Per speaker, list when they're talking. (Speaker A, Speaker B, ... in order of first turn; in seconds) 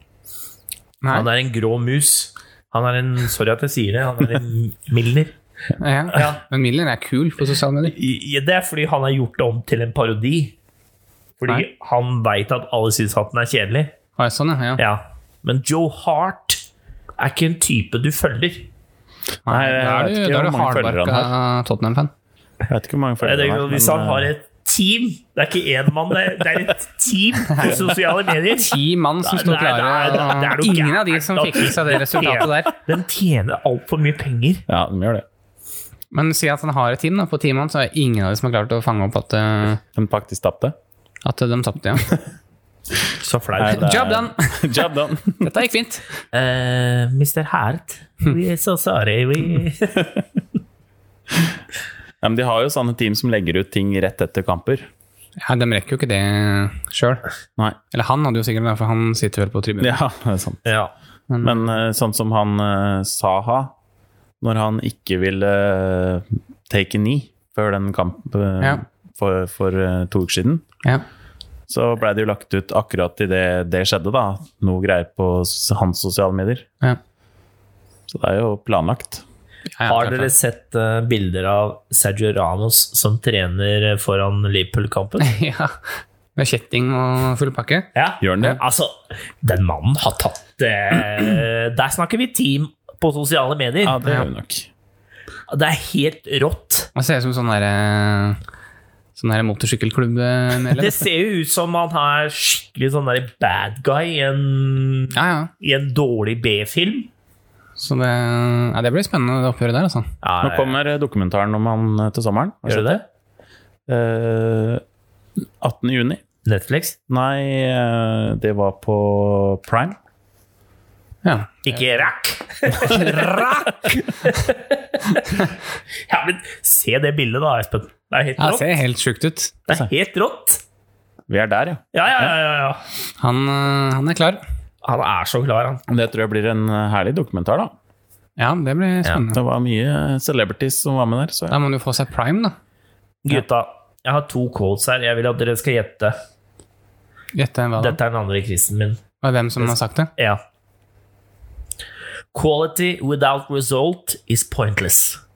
Speaker A: 1.1-5.3, 6.1-6.4, 7.8-10.5, 11.4-13.9, 14.8-16.6, 17.2-18.7, 23.2-34.6, 43.2-44.0, 46.3-50.1, 60.6-60.9, 79.8-85.3, 87.9-94.0, 95.5-96.9, 100.6-107.1, 110.2-110.8, 112.7-113.0, 116.4-117.0, 121.7-125.5, 126.1-128.7, 129.7-130.6, 131.9-132.8, 134.8-135.8, 143.2-146.2, 147.8-149.0, 149.6-150.4, 152.3-155.2
Speaker B: 5.8-8.0, 14.2-14.8, 19.5-22.1, 27.5-27.8, 28.5-32.8, 36.1-39.8, 41.2-42.2, 43.7-44.8, 45.4-46.0, 55.4-57.2, 57.9-60.0, 61.3-61.7, 79.8-80.3, 85.2-85.8, 86.3-88.6, 96.9-98.4, 99.2-101.0, 105.1-105.5, 107.8-110.1, 121.2-121.8, 122.8-123.8, 128.4-129.6, 133.2-134.4, 138.4-139.4, 141.5-142.5, 147.3-148.0, 149.2-150.1
Speaker C: 19.5-21.3, 22.7-24.3, 34.7-35.2, 39.9-40.7, 43.5-45.5, 52.2-54.9, 59.8-60.7, 61.4-63.7, 64.4-70.6, 71.7-76.7, 78.1-79.2, 88.2-88.6, 93.8-94.7, 110.4-113.0, 113.9-114.8, 115.6-116.2, 117.1-120.0, 131.3-132.3, 135.9-137.7, 139.3-141.6